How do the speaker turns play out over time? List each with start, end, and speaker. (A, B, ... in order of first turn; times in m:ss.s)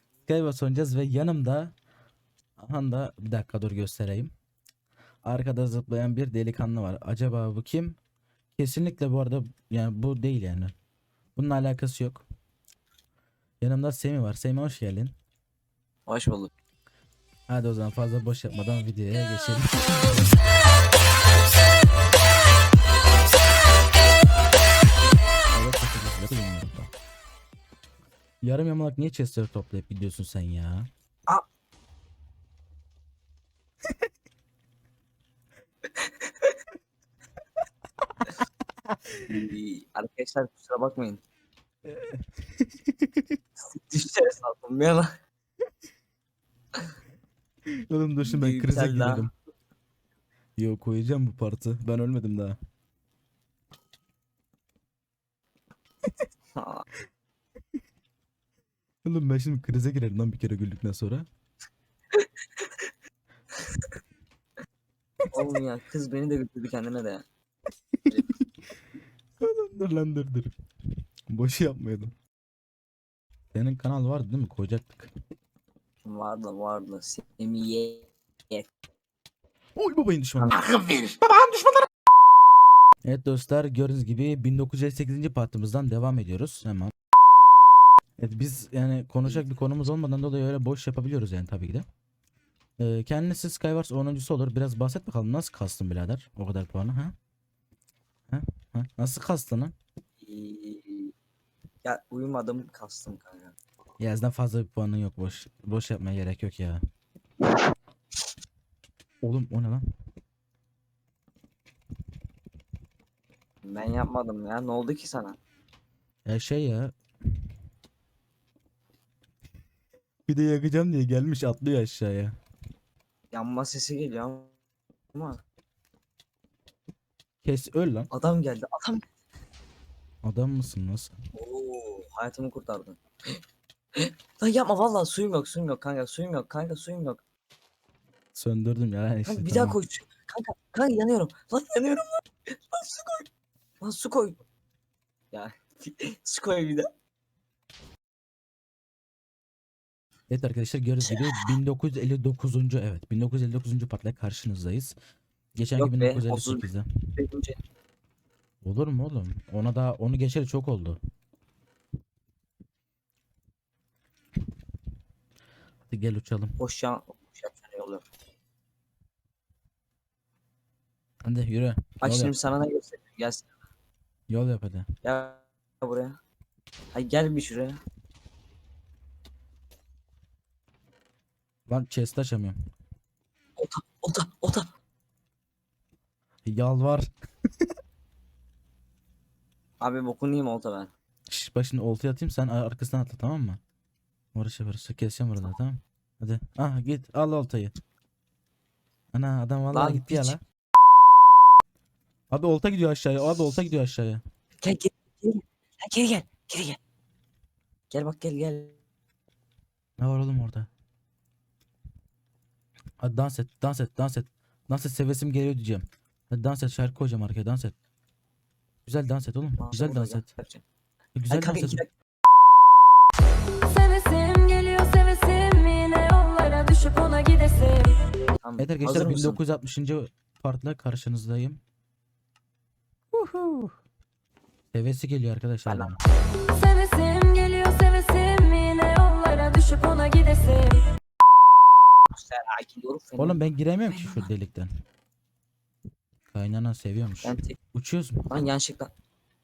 0:00.2-0:01.7 A
0:02.6-0:04.3 A
0:05.2-0:08.0 A
0:08.6-0:10.7 A
0:11.4-0:12.2 A
0:13.6-0:15.1 A
0:16.1-0:16.5 B
0:17.5-0:20.3 A
0:25.5-0:26.9 A
0:28.4-0:30.9 A
0:35.9-0:36.6 B
0:38.9-0:39.2 A
0:39.3-0:41.2 B
0:41.8-0:43.4 A
0:43.6-0:45.1 B
0:47.9-0:49.3 A
0:48.2-0:49.2 B
0:50.6-0:52.6 A
0:56.6-0:56.8 B
0:59.0-1:01.2 A
1:02.1-1:02.8 B
1:03.5-1:04.0 B
1:05.3-1:07.2 B
1:09.4-1:10.5 A
1:11.3-1:12.1 A
1:13.5-1:15.1 A
1:16.0-1:18.7 B
1:19.8-1:20.6 A
1:20.4-1:20.9 B
1:23.0-1:26.9 A
1:28.2-1:31.8 A
1:29.2-1:29.5 B
1:32.8-1:37.1 A
1:38.3-1:39.7 A
1:40.2-1:41.1 B
1:41.8-1:43.5 B
1:44.0-1:46.8 A
1:49.2-1:49.8 A
1:53.6-1:55.4 B
1:56.2-1:56.9 A
2:00.3-2:02.3 A
2:03.3-2:04.5 B
2:05.1-2:05.4 B
2:07.4-2:08.1 A
2:08.1-2:09.0 B
2:10.2-2:11.1 A
2:11.3-2:13.4 B
2:14.0-2:17.2 B
2:18.3-2:19.8 A
2:19.3-2:23.3 B
2:23.8-2:24.4 B
2:25.3-2:26.9 B
2:30.3-2:34.9 A
2:31.1-2:31.5 B
2:35.6-2:36.9 A
2:35.8-2:37.6 B
2:38.6-2:41.0 A
2:45.9-2:46.6 A
2:46.6-2:48.0 B
2:51.2-2:52.3 A
2:52.0-2:53.5 B
2:54.3-2:54.8 A
2:55.0-2:56.2 B
2:56.9-2:57.8 B
3:01.7-3:02.6 A
3:03.6-3:04.7 B
3:06.4-3:07.1 A
3:09.8-3:10.9 B
3:11.3-3:13.6 A
3:14.3-3:17.7 A
3:19.1-3:20.4 A
3:19.7-3:20.4 B
3:22.3-3:24.2 A
3:24.6-3:26.8 B
3:27.9-3:28.8 B
3:30.0-3:30.7 A
3:33.0-3:37.7 A
3:38.8-3:40.3 A
3:39.6-3:40.6 B
3:41.1-3:41.8 A
3:41.3-3:41.9 B
3:43.6-3:48.0 C
3:48.4-3:49.4 B
3:48.6-3:51.6 A
3:53.1-3:53.7 A
3:54.7-3:56.0 A
3:55.7-3:56.1 B
3:56.5-4:00.8 C
4:02.1-4:04.3 B
4:03.2-4:04.7 A
4:06.3-4:08.3 A
4:07.2-4:07.6 B
4:08.3-4:08.9 B